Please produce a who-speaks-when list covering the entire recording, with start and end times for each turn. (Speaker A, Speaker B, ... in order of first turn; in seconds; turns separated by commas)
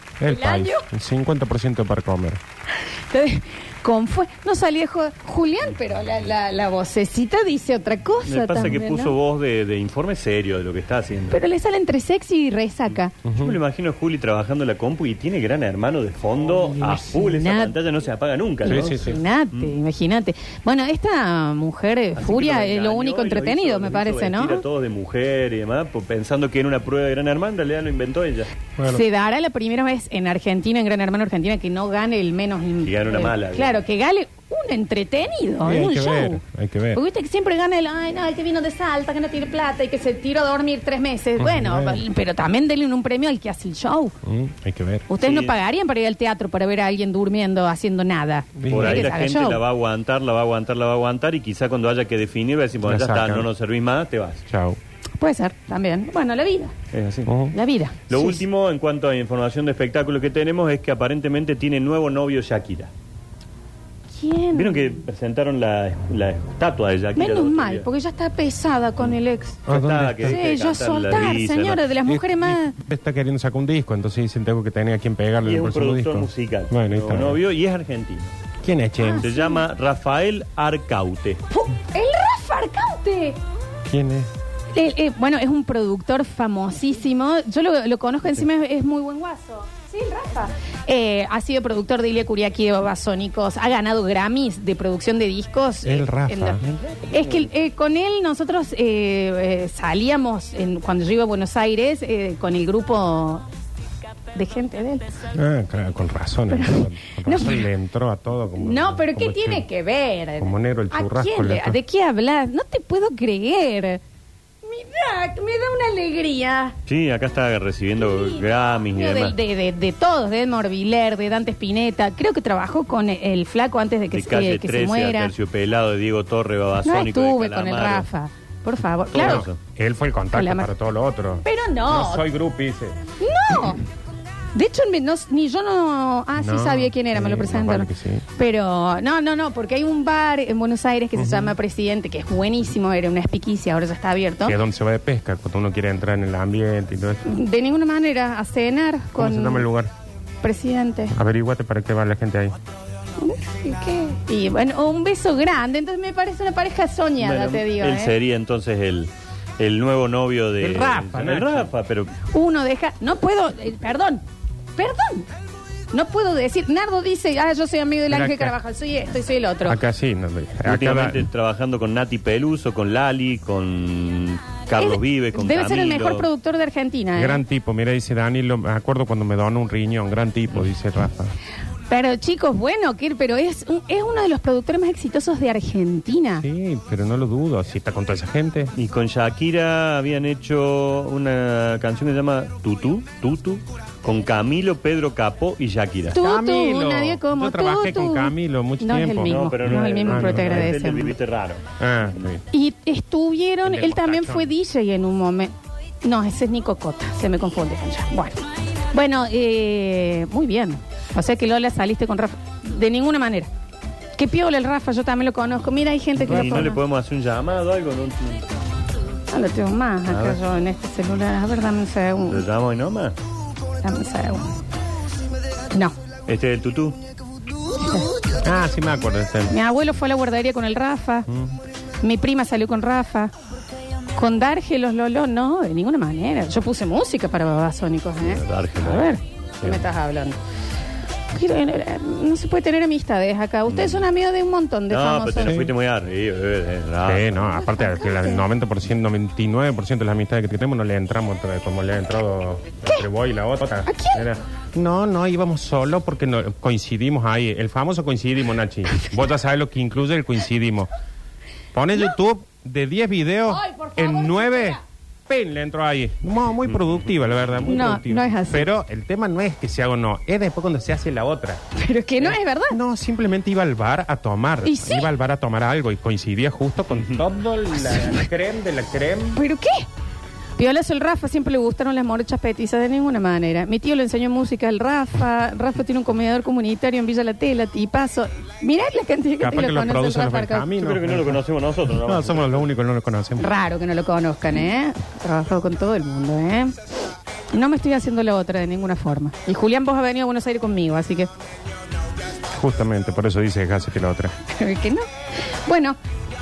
Speaker A: 0.2-2.4, Speaker B: 0.2-0.9, Speaker B: 3.1-9.1, Speaker C: 8.2-11.4, Speaker B: 11.3-13.2, Speaker A: 13.2-13.6, Speaker C: 13.3-19.8, Speaker B: 16.4-17.8, Speaker A: 18.7-19.2, Speaker B: 18.7-24.6, Speaker C: 22.2-28.5, Speaker A: 28.8-29.0, Speaker B: 28.9-36.4, Speaker C: 32.8-33.8, Speaker A: 35.6-37.0, Speaker B: 36.9-44.1, Speaker A: 41.4-42.0, Speaker A: 44.2-45.1, Speaker B: 45.1-49.6, Speaker C: 45.2-45.5, Speaker A: 48.6-49.1, Speaker C: 48.7-54.4, Speaker A: 52.9-53.5, Speaker A: 54.5-54.8, Speaker B: 55.2-56.7, Speaker C: 56.9-57.3, Speaker A: 57.3-57.5, Speaker B: 57.5-58.4, Speaker C: 58.1-62.9, Speaker B: 64.2-65.0, Speaker C: 64.5-67.9, Speaker B: 67.2-69.6, Speaker A: 69.7-70.4, Speaker C: 69.7-71.8, Speaker B: 70.2-72.8, Speaker A: 71.1-71.4, Speaker A: 72.1-77.4, Speaker C: 75.4-78.3, Speaker A: 78.6-79.3, Speaker B: 79.0-79.6, Speaker C: 79.2-81.4, Speaker B: 81.5-83.4, Speaker A: 83.9-84.3, Speaker B: 84.7-96.6, Speaker A: 95.8-97.0, Speaker B: 97.1-103.4, Speaker B: 104.3-105.2, Speaker A: 105.3-109.7, Speaker B: 106.5-107.7, Speaker B: 108.6-114.0, Speaker A: 110.4-111.8, Speaker B: 114.6-116.8, Speaker C: 116.9-119.4, Speaker B: 118.0-125.3, Speaker C: 124.1-128.1, Speaker B: 126.8-129.4, Speaker C: 129.1-129.6, Speaker A: 129.2-133.0, Speaker B: 130.3-130.7, Speaker B: 131.4-132.2, Speaker B: 133.2-133.8, Speaker B: 134.5-144.6, Speaker A: 136.4-138.2, Speaker A: 141.2-141.6, Speaker A: 144.4-147.2, Speaker B: 147.2-149.7, Speaker A: 149.2-149.9, Speaker B: 150.4-151.1, Speaker A: 151.1-152.6, Speaker B: 153.2-158.1, Speaker C: 157.2-162.1, Speaker A: 160.6-161.7, Speaker B: 162.3-164.2, Speaker B: 164.8-165.3, Speaker B: 165.9-169.8, Speaker A: 168.1-168.5, Speaker A: 169.7-171.3, Speaker C: 170.6-176.3, Speaker B: 174.8-177.4, Speaker A: 177.2-181.3, Speaker B: 181.9-186.4, Speaker A: 186.4-188.7, Speaker C: 188.8-196.2, Speaker A: 196.1-200.7, Speaker B: 196.1-201.1, Speaker C: 199.2-202.2, Speaker A: 201.8-202.4, Speaker B: 202.5-213.5, Speaker A: 203.7-204.5, Speaker B: 214.2-216.8, Speaker C: 216.2-218.5, Speaker B: 219.3-222.4, Speaker C: 220.1-220.4, Speaker C: 222.3-223.2, Speaker B: 223.8-224.5, Speaker C: 226.2-227.0, Speaker B: 227.8-228.1, Speaker A: 228.4-229.5, Speaker B: 229.5-231.3, Speaker A: 231.3-231.6, Speaker B: 232.0-233.3, Speaker B: 234.1-240.4, Speaker C: 238.2-239.8, Speaker B: 241.3-245.6, Speaker C: 243.7-244.1, Speaker C: 244.9-247.5, Speaker A: 245.4-245.7, Speaker A: 247.0-260.9, Speaker B: 247.5-248.4, Speaker B: 253.9-254.2, Speaker A: 261.7-271.6, Speaker B: 263.5-264.8, Speaker B: 267.6-268.7, Speaker B: 271.8-272.8, Speaker A: 272.2-279.4, Speaker B: 274.6-275.1, Speaker C: 276.9-277.2, Speaker B: 277.8-278.2, Speaker B: 279.3-279.9, Speaker B: 280.6-290.7, Speaker A: 289.4-291.4, Speaker C: 290.8-292.7, Speaker A: 291.9-293.5, Speaker B: 293.4-296.7, Speaker B: 297.5-301.3, Speaker A: 302.6-304.3, Speaker B: 304.5-305.0, Speaker B: 305.6-306.0